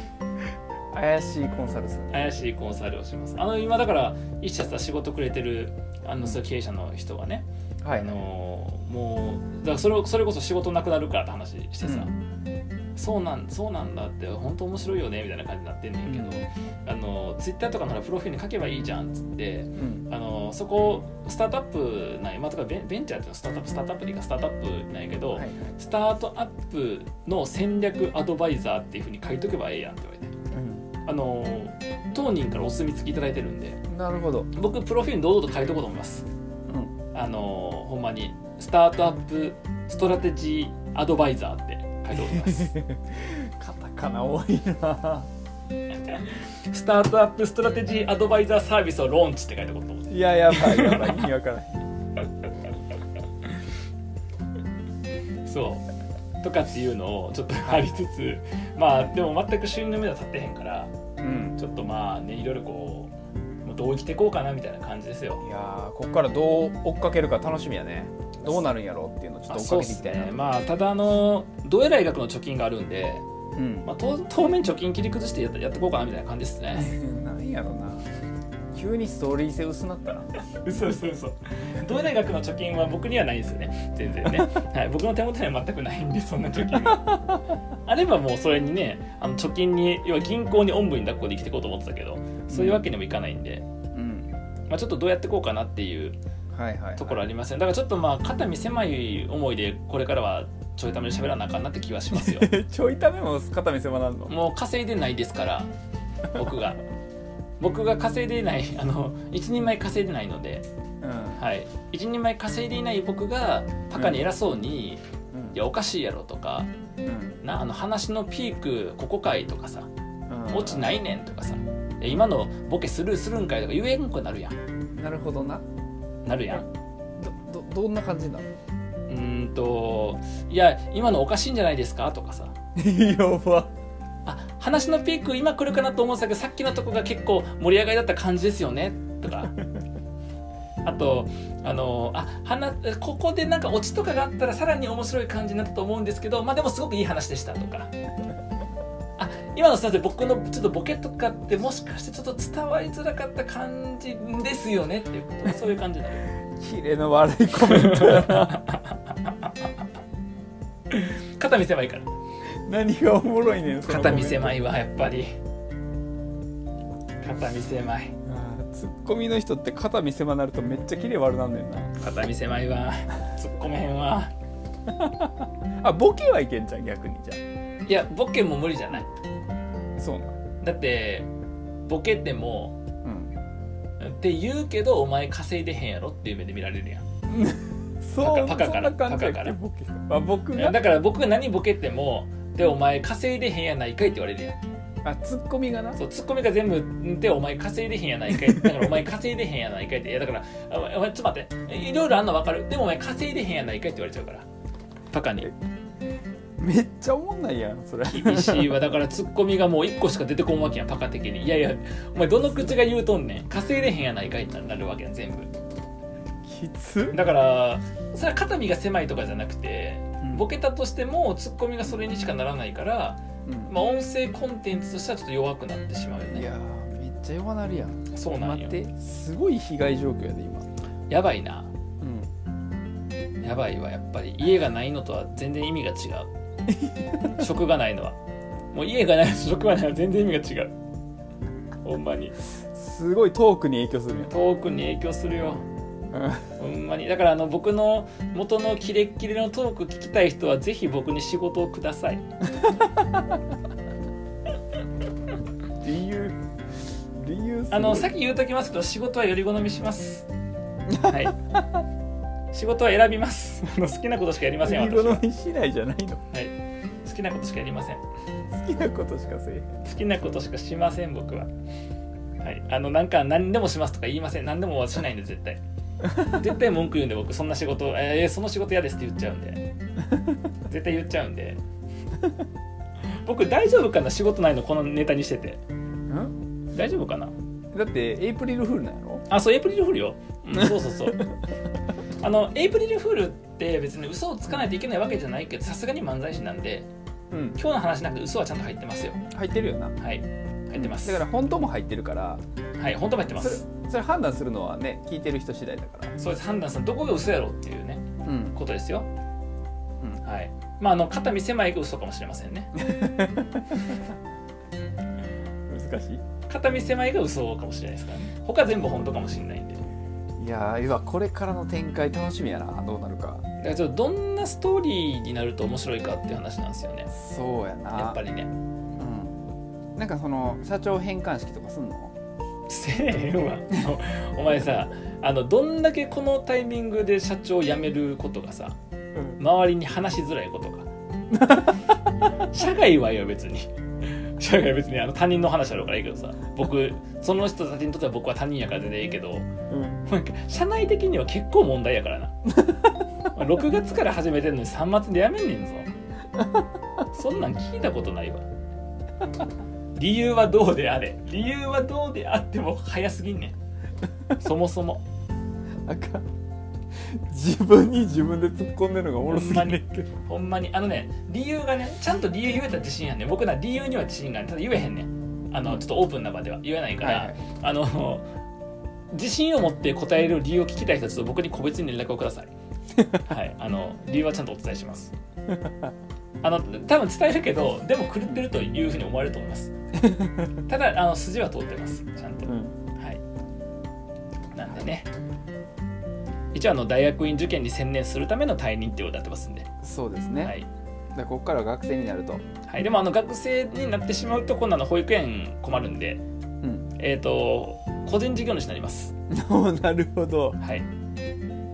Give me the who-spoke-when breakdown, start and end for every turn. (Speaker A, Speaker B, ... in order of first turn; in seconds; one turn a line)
Speaker A: 0.9-2.4
Speaker B: 2.1-12.1
Speaker A: 7.8-8.2
Speaker A: 11.8-12.1
Speaker B: 13.0-30.3
Speaker A: 16.1-16.5
Speaker A: 19.8-20.1
Speaker A: 25.3-25.8
Speaker A: 30.5-30.9
Speaker B: 31.1-33.8
Speaker A: 33.9-34.5
Speaker B: 34.5-36.2
Speaker A: 36.7-37.0
Speaker B: 37.1-42.7
Speaker A: 42.1-45.3
Speaker B: 46.0-51.2
Speaker A: 50.1-51.8
Speaker B: 55.5-55.9
Speaker B: 56.4-60.9
Speaker A: 61.2-61.6
Speaker B: 61.6-63.1
Speaker B: 63.6-65.4
Speaker A: 65.4-70.5
Speaker B: 68.4-68.7
Speaker B: 69.5-73.2
Speaker A: 73.6-73.9
Speaker B: 73.8-77.0
Speaker A: 76.7-78.1
Speaker A: 78.7-80.3
Speaker B: 80.5-93.6
Speaker A: 86.8-87.2
Speaker A: 92.5-92.8
Speaker A: 93.9-94.3
Speaker B: 94.7-96.2
Speaker A: 96.5-97.2
Speaker B: 97.0-102.5
Speaker A: 102.1-104.3
Speaker B: 104.3-105.7
Speaker B: 106.3-106.8
Speaker B: 107.6-110.6
Speaker A: 111.0-111.4
Speaker B: 111.4-115.0
Speaker A: 113.9-114.3
Speaker A: 115.3-115.6
Speaker B: 115.5-116.7
Speaker A: 117.0-117.4
Speaker B: 117.4-119.9
Speaker A: 120.3-121.0
Speaker B: 120.5-124.5
Speaker A: 125.0-125.6
Speaker B: 126.2-126.7
Speaker A: 127.2-128.6
Speaker B: 129.1-132.6
Speaker A: 132.8-133.7
Speaker B: 134.2-139.6
Speaker B: 140.8-147.9
Speaker B: 149.2-156.3
Speaker A: 156.5-158.6
Speaker B: 157.7-159.5
Speaker B: 160.9-162.1
Speaker A: 162.6-164.6
Speaker B: 163.8-165.3
Speaker B: 167.2-168.1
Speaker A: 168.2-172.0
Speaker B: 172.0-174.3
Speaker A: 174.9-177.4
Speaker B: 177.9-179.1
Speaker A: 180.0-180.3
Speaker B: 180.6-181.3
Speaker B: 181.9-182.8
Speaker A: 183.0-183.3
Speaker B: 184.0-187.0
Speaker A: 187.3-190.8
Speaker B: 188.2-189.6
Speaker B: 190.5-194.6
Speaker A: 195.0-196.0
Speaker B: 196.0-204.5
Speaker A: 198.5-199.0
Speaker B: 205.1-205.5
Speaker A: 206.6-208.9
Speaker B: 208.1-215.5
Speaker A: 216.4-217.2
Speaker B: 217.1-226.5
Speaker A: 220.2-220.5
Speaker A: 223.5-223.7
Speaker A: 226.3-230.7
Speaker B: 228.1-228.8
Speaker B: 231.1-231.7
Speaker A: 232.0-232.3
Speaker B: 233.4-236.3
Speaker A: 236.7-237.4
Speaker B: 237.3-238.2
Speaker B: 238.7-240.7
Speaker B: 241.8-242.4
Speaker A: 242.6-244.3
Speaker B: 244.3-245.6
Speaker A: 246.1-246.5
Speaker B: 246.6-252.2
Speaker A: 252.6-253.2
Speaker A: 255.8-256.4
Speaker A: 257.1-258.1
Speaker B: 257.7-260.3
Speaker A: 260.9-261.6
Speaker B: 261.0-261.4
Speaker B: 262.5-265.2
Speaker A: 264.6-266.2
Speaker B: 267.1-268.0
Speaker A: 268.5-269.8
Speaker B: 269.8-271.5
Speaker B: 272.4-275.6
Speaker B: 276.1-279.6
Speaker B: 280.6-281.6
Speaker B: 283.2-285.6
Speaker A: 286.1-286.4
Speaker B: 286.7-287.3
Speaker A: 287.7-289.2
Speaker B: 289.3-291.3
Speaker B: 292.2-296.9
Speaker A: 297.3-297.6
Speaker B: 297.6-299.2
Speaker A: 299.3-300.0
Speaker B: 300.0-301.2
Speaker A: 300.8-302.4
Speaker B: 302.8-303.6
Speaker A: 303.4-306.1
Speaker B: 306.2-309.1
Speaker A: 308.2-308.6
Speaker B: 310.2-312.7
Speaker A: 312.8-314.0
Speaker A: 315.7-316.2
Speaker B: 316.5-319.8
Speaker A: 320.4-323.4
Speaker B: 323.6-327.1
Speaker A: 327.1-328.2
Speaker B: 327.9-328.5
Speaker A: 329.0-329.4
Speaker A: 330.0-332.1
Speaker B: 332.7-338.8
Speaker B: 339.4-340.9
Speaker A: 341.3-341.8
Speaker B: 342.3-349.5
Speaker A: 349.7-350.0
Speaker B: 350.1-352.5
Speaker A: 352.6-352.9
Speaker B: 353.3-355.9
Speaker A: 356.4-356.7
Speaker B: 357.1-358.4
Speaker B: 360.0-363.6
Speaker B: 364.4-365.0
Speaker A: 365.9-366.2
Speaker A: 366.9-370.1
Speaker B: 369.2-378.2
Speaker A: 377.0-377.5
Speaker B: 379.1-382.5
Speaker A: 383.0-383.2
Speaker B: 383.1-385.1
Speaker A: 385.5-385.9
Speaker B: 386.4-389.7
Speaker A: 390.0-390.6
Speaker B: 390.7-393.2
Speaker A: 392.4-392.8
Speaker B: 394.5-395.1
Speaker B: 396.5-399.7
Speaker A: 399.8-400.6
Speaker B: 400.4-400.7
Speaker A: 401.1-402.4
Speaker B: 402.6-406.2
Speaker A: 406.6-406.9
Speaker B: 407.0-409.1
Speaker A: 409.3-410.6
Speaker B: 410.6-410.9